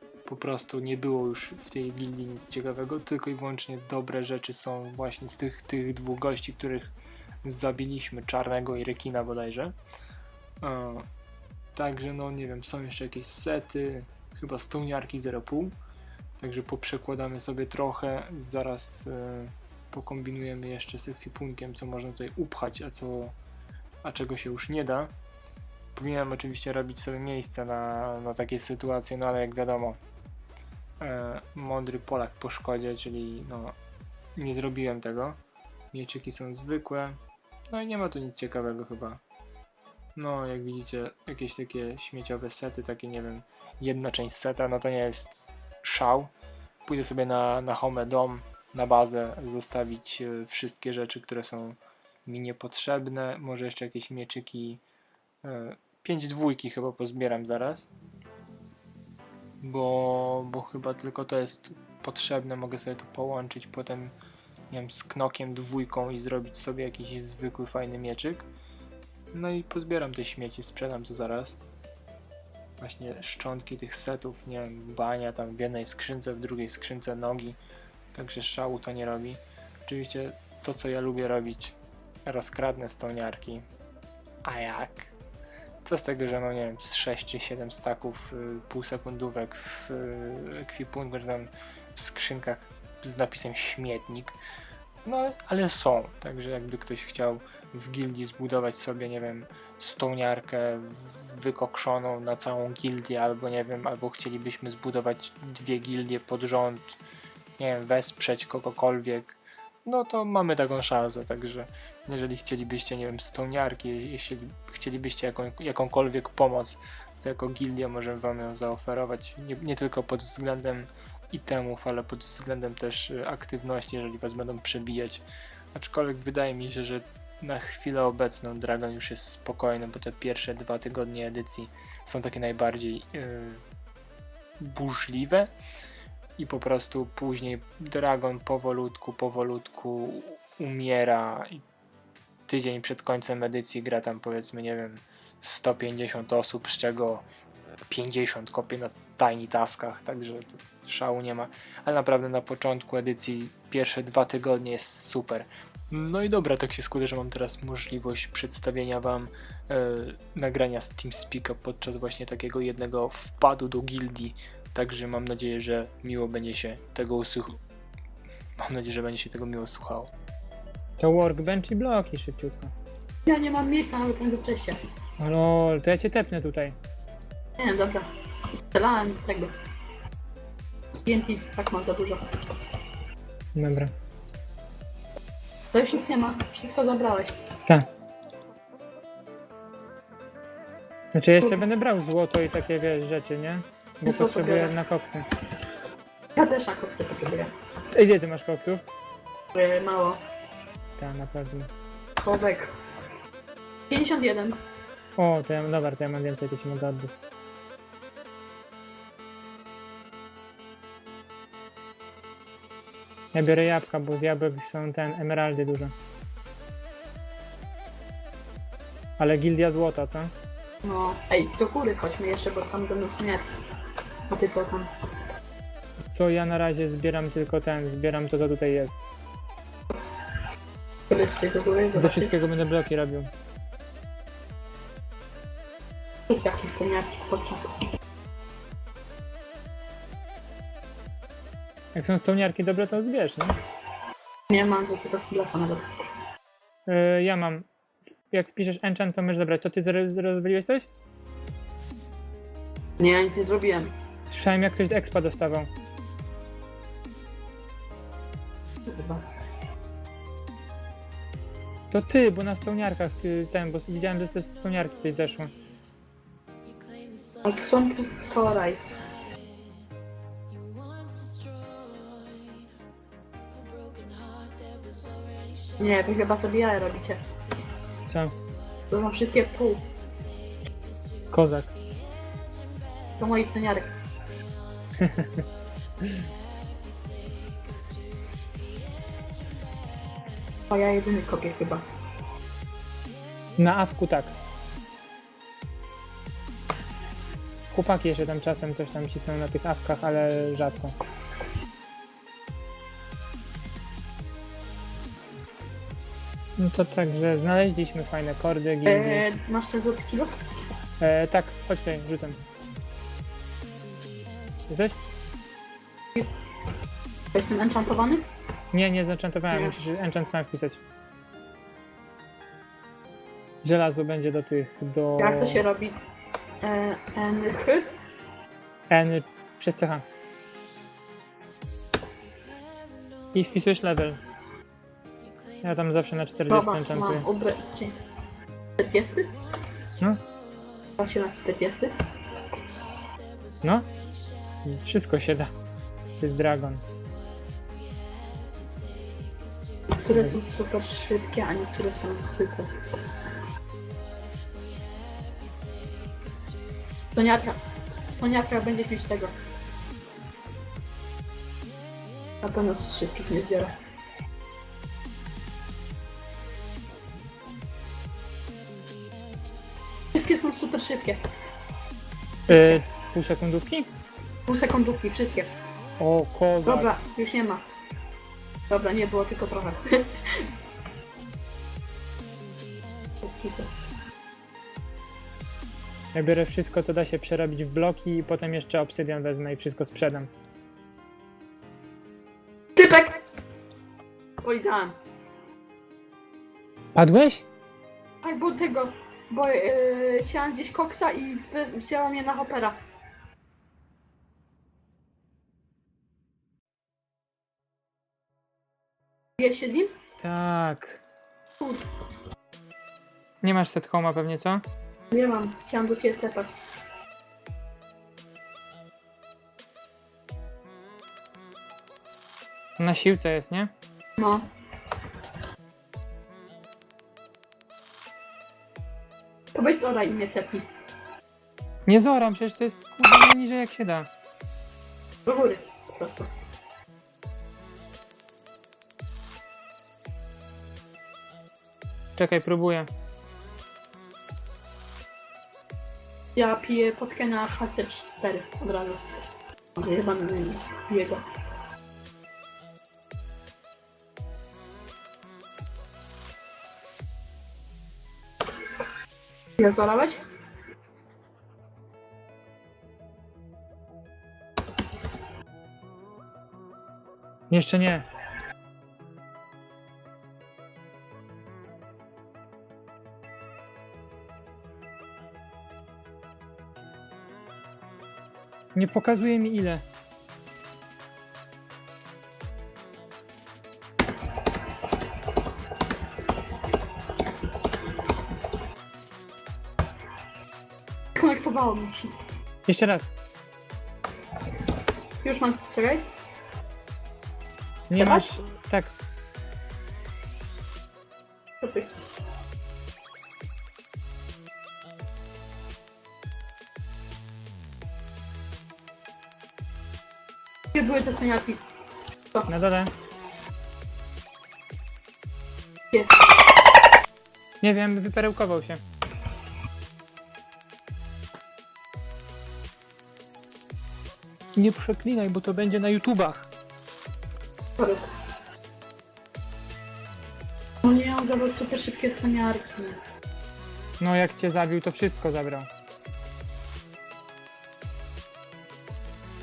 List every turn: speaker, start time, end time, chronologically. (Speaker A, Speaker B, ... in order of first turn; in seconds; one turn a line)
Speaker A: 0.2-9.8
Speaker A: 10.6-11.1
Speaker A: 11.8-15.7
Speaker A: 16.4-23.4
Speaker A: 24.0-25.1
Speaker A: 25.9-30.0
Speaker A: 31.0-33.8
Speaker A: 34.4-35.4
Speaker A: 35.9-39.2
Speaker A: 40.2-46.3
Speaker A: 46.9-54.8
Speaker A: 55.4-57.9
Speaker A: 59.6-64.2
Speaker A: 64.7-68.5
Speaker A: 69.3-71.6
Speaker A: 72.8-77.6
Speaker A: 78.1-83.7
Speaker A: 84.4-85.2
Speaker A: 85.8-94.4
Speaker A: 95.0-107.0
Speaker A: 107.6-133.6
Speaker A: 134.6-135.6
Speaker A: 136.4-141.6
Speaker A: 142.5-147.2
Speaker A: 147.9-167.6
Speaker A: 168.6-170.1
Speaker B: 171.0-172.7
Speaker C: 173.3-174.8
Speaker B: 175.2-176.8
Speaker C: 177.6-179.5
Speaker C: 181.0-182.2
Speaker B: 183.6-183.9
Speaker C: 185.7-187.3
Speaker B: 191.1-195.3
Speaker C: 191.4-191.7
Speaker C: 194.0-194.8
Speaker C: 196.4-197.5
Speaker B: 197.9-198.8
Speaker C: 199.5-200.2
Speaker B: 201.0-201.7
Speaker C: 202.2-202.7
Speaker C: 203.9-204.6
Speaker B: 205.2-207.2
Speaker B: 213.3-215.9
Speaker B: 219.2-220.3
Speaker C: 220.8-223.5
Speaker C: 224.3-224.9
Speaker B: 226.1-229.1
Speaker C: 231.1-232.3
Speaker B: 232.0-233.3
Speaker C: 236.3-237.7
Speaker B: 241.9-243.6
Speaker C: 244.5-246.0
Speaker B: 246.9-247.7
Speaker B: 248.3-250.9
Speaker C: 253.0-253.9
Speaker B: 254.3-255.7
Speaker C: 258.9-259.2
Speaker B: 261.9-265.5
Speaker C: 267.4-268.9
Speaker C: 275.8-277.2
Speaker B: 278.1-278.4
Speaker C: 278.9-279.9
Speaker B: 281.3-281.7
Speaker C: 283.2-283.9
Speaker B: 285.0-285.3
Speaker C: 290.7-291.8
Speaker B: 293.6-294.4
Speaker B: 297.7-300.9
Speaker B: 306.6-309.2
Speaker C: 308.9-310.3
Speaker B: 311.0-312.4
Speaker B: 314.7-315.0
Speaker C: 317.3-318.2
Speaker B: 318.7-320.8
Speaker B: 323.6-325.6
Speaker C: 325.2-326.0
Speaker C: 326.6-327.9
Speaker B: 328.9-330.1
Speaker B: 333.3-334.2
Speaker B: 335.6-337.3
Speaker C: 336.5-337.9
Speaker C: 338.8-339.3
Speaker C: 341.0-341.9
Speaker B: 343.6-343.9
Speaker B: 344.6-345.5
Speaker B: 346.2-346.9
Speaker C: 349.9-352.7
Speaker B: 350.1-350.4
Speaker C: 357.1-357.6
Speaker C: 358.1-359.3
Speaker C: 362.4-363.7
Speaker C: 370.1-371.2
Speaker C: 372.5-372.8
Speaker B: 372.5-373.9
Speaker C: 374.5-375.5
Speaker B: 376.0-376.9
Speaker C: 376.6-377.6
Speaker C: 378.7-380.5
Speaker C: 383.2-383.7
Speaker B: 386.1-390.3
Speaker C: 392.8-393.2
Speaker C: 394.4-395.0
Speaker B: 396.9-397.5
Speaker C: 398.2-402.8
Speaker C: 409.4-409.9
Speaker B: 410.2-411.0
Speaker B: 413.4-414.6
Speaker C: 415.1-416.5
Speaker B: 422.8-423.7
Speaker C: 424.2-424.4
Speaker C: 429.5-430.7
Speaker B: 431.9-434.1
Speaker C: 435.3-436.3
Speaker B: 442.2-442.9
Speaker C: 446.4-449.0
Speaker C: 449.8-451.2
Speaker C: 459.6-460.2
Speaker B: 467.5-468.1
Speaker B: 478.8-479.8
Speaker C: 491.2-492.1
Speaker B: 492.7-493.1
Speaker C: 495.2-496.1
Speaker B: 497.9-498.9
Speaker C: 498.0-498.4
Speaker C: 501.6-501.9
Speaker C: 510.7-511.6
Speaker B: 512.5-512.9
Speaker C: 515.9-516.2
Speaker B: 517.6-518.8
Speaker B: 524.6-526.5
Speaker C: 527.8-528.1
Speaker C: 530.8-533.0
Speaker B: 534.0-535.7